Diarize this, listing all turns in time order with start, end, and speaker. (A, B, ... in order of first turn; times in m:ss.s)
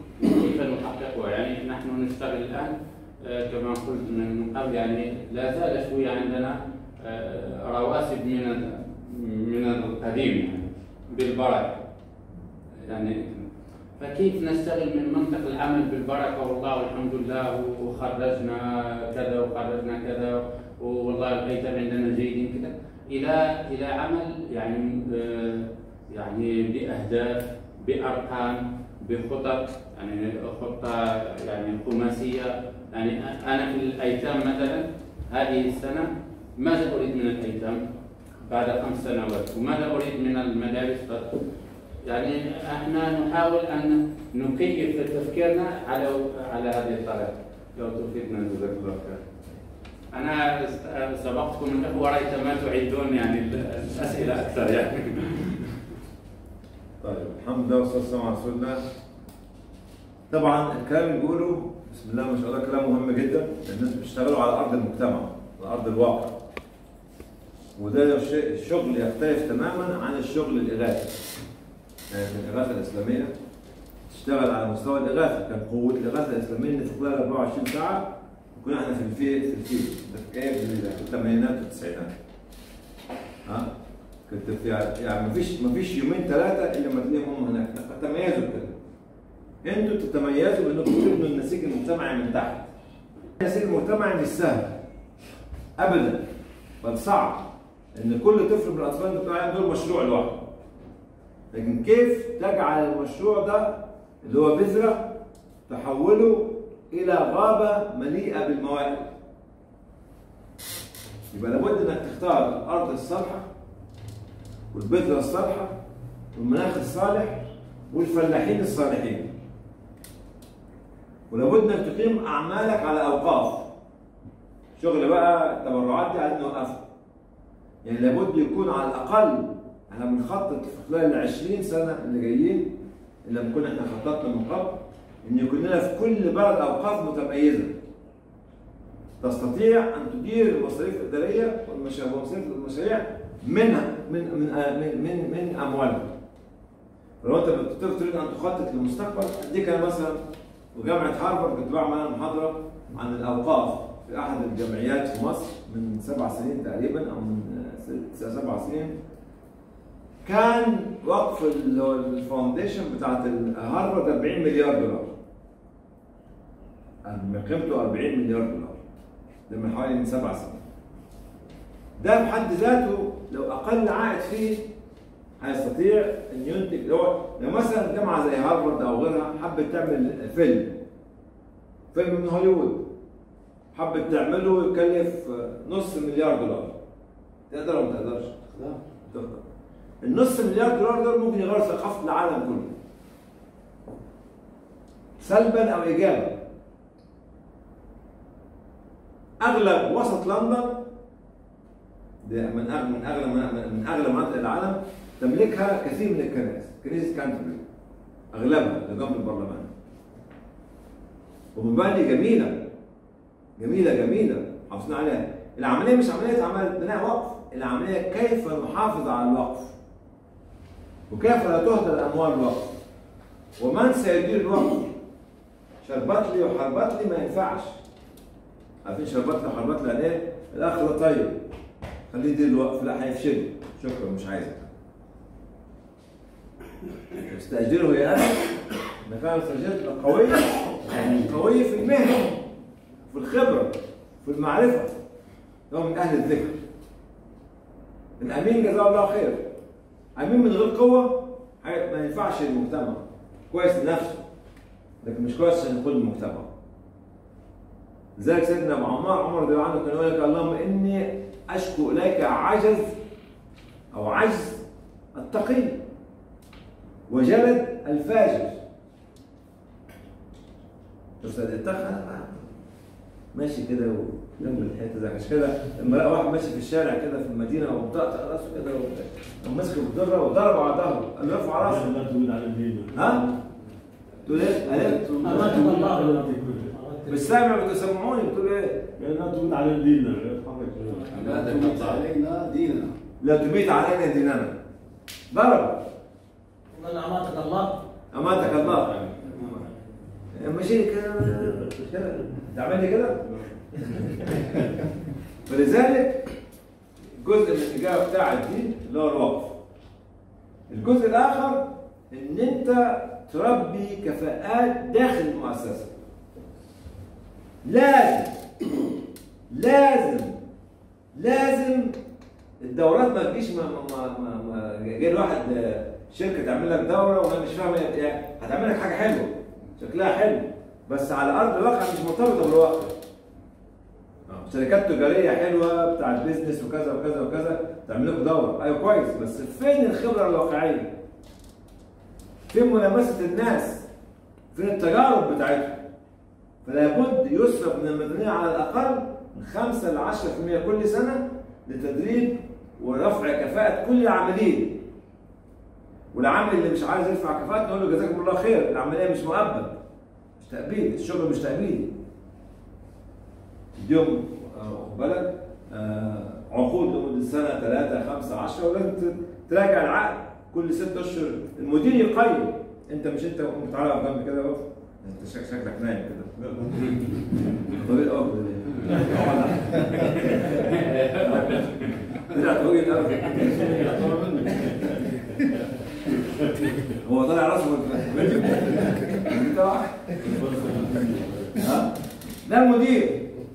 0:00.2-0:11.8 A
0:12.8-0:13.4 A
0:14.0-0:37.8 A
0:38.4-0:41.4 A
0:42.0-0:49.2 A
0:50.1-0:55.6 A
0:57.0-0:58.8 B
1:00.3-1:06.4 B
1:07.8-1:11.1 B
1:12.1-1:13.3 B
1:14.1-1:22.1 B
1:24.3-1:28.7 B
1:29.6-1:32.7 B
1:33.4-1:34.7 B
1:35.8-1:36.2 B
1:36.8-1:40.5 B
1:41.5-1:45.1 B
1:45.7-1:49.1 B
1:51.3-1:53.5 B
1:54.7-1:55.7 B
1:56.3-1:59.3 B
2:01.3-2:03.7 B
2:04.8-2:06.8 B
2:07.8-2:12.7 B
2:13.2-2:17.7 B
2:19.2-2:26.1 B
2:27.2-2:30.2 B
2:30.7-2:38.9 B
2:40.2-2:45.1 B
2:47.0-2:48.8 B
2:49.5-2:50.6 B
2:52.0-2:54.6 B
2:55.4-3:00.8 B
3:01.9-3:02.9 B
3:03.7-3:06.8 B
3:07.5-3:08.3 B
3:08.5-3:08.8 C
3:09.1-3:09.4 B
3:10.0-3:12.7 B
3:15.2-3:16.4 B
3:19.4-3:20.8 B
3:22.2-3:27.6 B
3:28.3-3:29.7 B
3:31.5-3:32.7 B
3:33.6-3:39.7 B
3:41.1-3:42.7 B
3:43.6-3:44.9 B
3:45.8-3:47.8 B
3:48.8-3:51.4 B
3:52.1-3:54.7 B
3:57.2-3:58.4 B
3:59.0-4:02.4 B
4:03.1-4:04.9 B
4:05.7-4:06.6 B
4:08.2-4:09.4 B
4:10.2-4:14.2 B
4:15.0-4:16.5 B
4:18.2-4:22.9 B
4:23.9-4:24.6 B
4:25.1-4:25.8 B
4:27.1-4:28.5 B
4:31.2-4:32.4 B
4:33.3-4:42.0 B
4:41.5-4:43.4 D
4:42.9-4:43.2 B
4:44.2-4:45.4 B
4:44.7-4:45.6 C
4:44.8-4:46.7 D
4:45.2-4:47.4 E
4:47.1-4:48.9 B
4:49.0-4:51.8 D
4:51.1-4:52.9 C
4:53.2-4:54.5 B
4:55.3-4:55.8 B
4:56.7-4:57.8 E
4:58.1-4:58.9 B
4:58.3-4:59.3 A
5:00.3-5:03.2 B
5:05.5-5:06.2 B
5:07.2-5:09.5 B
5:10.7-5:15.9 B
5:17.6-5:18.3 B
5:19.5-5:20.3 B
5:21.1-5:21.9 B
5:22.6-5:32.9 B
5:34.3-5:40.9 B
5:42.5-5:43.8 B
5:44.5-5:45.8 B
5:46.6-5:54.8 B
5:56.1-5:59.7 B
6:00.4-6:01.9 B
6:03.8-6:16.8 B
6:17.7-6:24.0 B
6:20.5-6:22.0 A
6:27.0-6:30.2 B
6:30.2-6:31.2 D
6:31.6-6:31.9 B
6:32.4-6:33.2 B